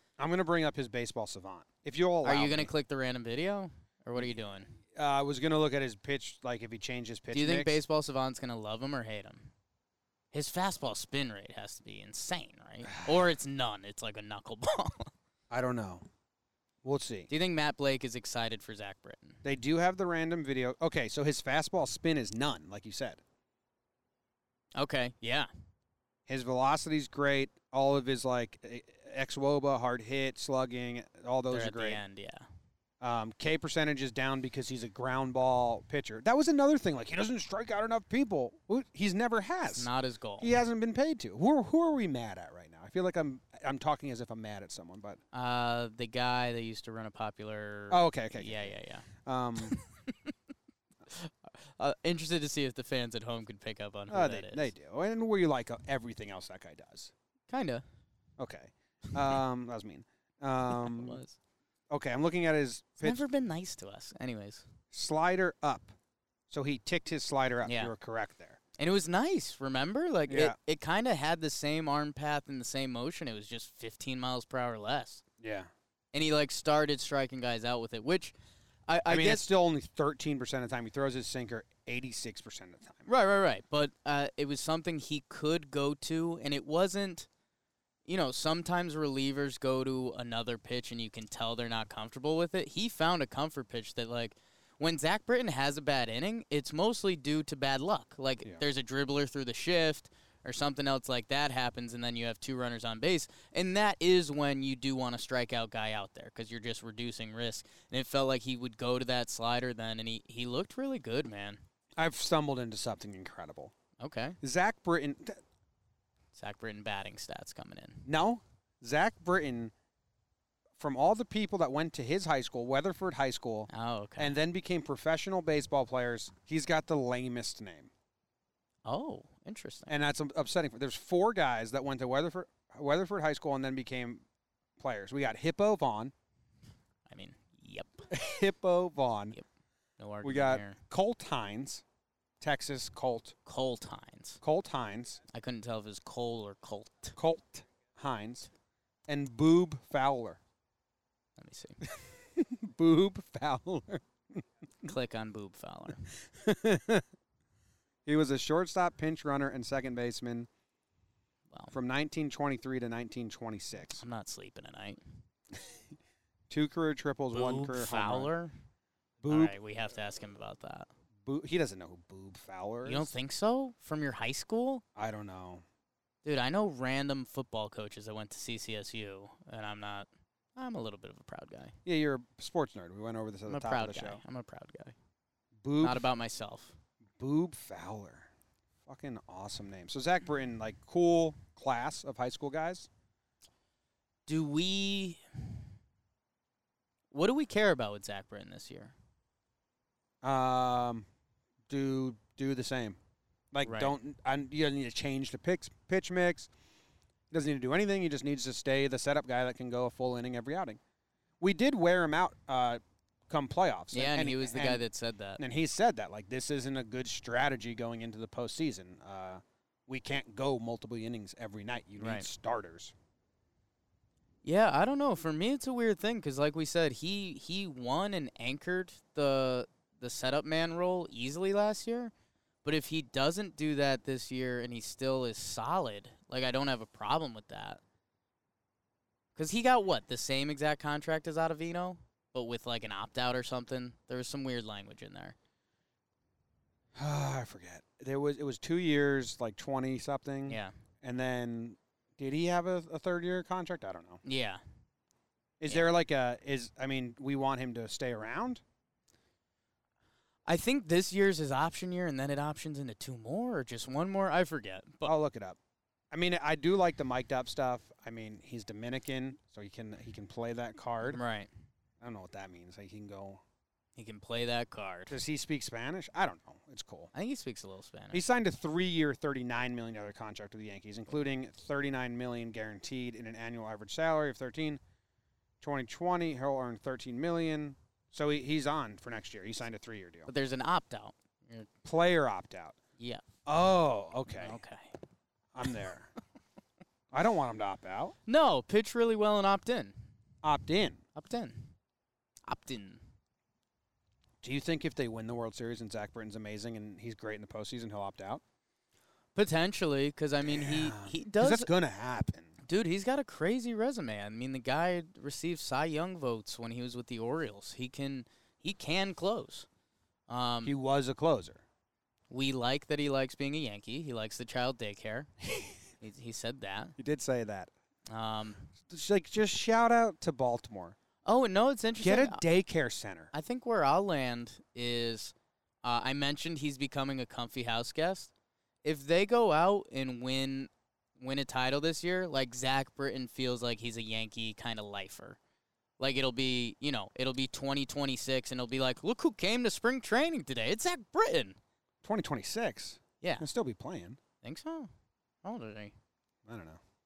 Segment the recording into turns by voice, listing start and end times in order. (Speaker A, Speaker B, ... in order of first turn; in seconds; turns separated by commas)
Speaker A: 0.2-2.7, Speaker B: 2.2-4.8, Speaker A: 4.9-7.8, Speaker B: 7.3-9.5, Speaker B: 10.3-15.1, Speaker A: 12.8-13.2, Speaker A: 15.5-16.1, Speaker A: 16.8-17.3, Speaker B: 17.3-19.4, Speaker A: 19.4-23.2, Speaker B: 24.8-25.5, Speaker A: 26.3-32.0, Speaker B: 31.5-32.5, Speaker A: 33.0-39.9, Speaker B: 39.7-40.6, Speaker A: 40.4-45.2, Speaker B: 45.3-49.1, Speaker A: 47.9-48.7, Speaker A: 49.2-49.8, Speaker B: 49.6-50.3, Speaker B: 51.1-54.7, Speaker A: 54.1-57.1, Speaker B: 57.5-57.8, Speaker A: 58.4-61.2, Speaker B: 60.7-61.4, Speaker A: 61.9-63.2, Speaker B: 63.0-64.7, Speaker A: 64.9-65.9, Speaker A: 66.5-68.6, Speaker B: 67.6-67.9, Speaker B: 68.8-75.2, Speaker A: 70.3-70.6, Speaker A: 75.4-75.7, Speaker B: 76.1-78.3, Speaker B: 78.9-79.5, Speaker A: 79.1-83.1, Speaker B: 83.1-87.3, Speaker B: 88.1-111.6, Speaker A: 112.0-113.7, Speaker B: 114.0-114.4, Speaker A: 114.4-115.4, Speaker B: 116.3-118.1, Speaker A: 118.1-119.7, Speaker A: 120.8-127.9, Speaker B: 123.7-124.3, Speaker B: 128.8-129.9, Speaker A: 129.9-134.2, Speaker A: 134.8-136.1, Speaker B: 137.1-138.1, Speaker A: 138.1-139.4, Speaker B: 140.0-140.8, Speaker A: 140.2-141.8, Speaker A: 142.4-143.3, Speaker B: 143.4-144.4, Speaker A: 144.4-145.2, Speaker B: 145.3-147.2, Speaker A: 147.2-148.5, Speaker A: 149.1-150.4, Speaker B: 151.4-151.8, Speaker A: 151.8-154.4, Speaker B: 154.8-156.1, Speaker A: 156.3-157.0, Speaker A: 158.1-160.5, Speaker B: 161.5-161.8, Speaker A: 161.7-164.0, Speaker B: 163.9-165.0, Speaker A: 166.5-168.3, Speaker B: 167.3-168.5, Speaker A: 169.2-169.5, Speaker B: 169.3-170.9, Speaker A: 171.2-173.1, Speaker B: 172.8-174.8, Speaker A: 174.9-175.6, Speaker B: 176.2-181.8, Speaker A: 181.8-184.2, Speaker B: 183.4-184.9, Speaker A: 185.6-186.1, Speaker B: 185.8-186.8, Speaker A: 187.2-188.3, Speaker A: 188.8-192.9, Speaker B: 194.3-195.2, Speaker B: 197.1-198.9, Speaker A: 200.2-201.1, Speaker A: 201.7-203.0, Speaker A: 203.5-206.5, Speaker B: 203.6-203.9, Speaker A: 207.3-210.8, Speaker A: 211.4-214.8, Speaker B: 213.9-215.4, Speaker A: 215.4-222.9, Speaker B: 222.0-222.3, Speaker B: 224.4-232.1, Speaker B: 232.6-237.8, Speaker B: 239.3-245.3, Speaker A: 246.9-254.2, Speaker B: 250.5-250.7, Speaker B: 254.2-254.6, Speaker A: 255.6-258.6, Speaker B: 260.5-265.1, Speaker A: 265.0-265.6, Speaker A: 266.1-271.2, Speaker B: 271.0-271.5, Speaker A: 272.0-273.4, Speaker B: 273.9-275.2, Speaker A: 275.1-277.1, Speaker B: 277.1-278.2, Speaker A: 278.1-284.8, Speaker A: 285.6-290.3, Speaker B: 290.3-291.7, Speaker A: 291.8-292.8, Speaker B: 293.0-293.2, Speaker A: 293.4-294.6, Speaker B: 294.3-294.9, Speaker A: 295.5-296.1, Speaker A: 297.1-298.1, Speaker B: 298.3-299.9, Speaker A: 300.4-301.0, Speaker B: 301.1-301.7, Speaker B: 302.5-303.0, Speaker A: 304.4-308.4, Speaker B: 309.3-311.7, Speaker A: 310.4-312.5, Speaker B: 312.7-319.7, Speaker B: 320.3-320.8, Speaker A: 320.6-321.6, Speaker B: 322.3-325.3, Speaker A: 325.4-325.8, Speaker B: 326.0-326.9, Speaker A: 327.0-327.7, Speaker B: 328.1-328.7, Speaker A: 328.9-330.9, Speaker B: 331.2-332.4, Speaker A: 332.0-333.3, Speaker B: 333.3-338.3, Speaker B: 338.8-345.4, Speaker B: 346.0-351.6, Speaker A: 352.0-354.2, Speaker B: 353.2-353.5, Speaker B: 354.4-354.9, Speaker B: 355.4-355.9, Speaker A: 356.4-356.8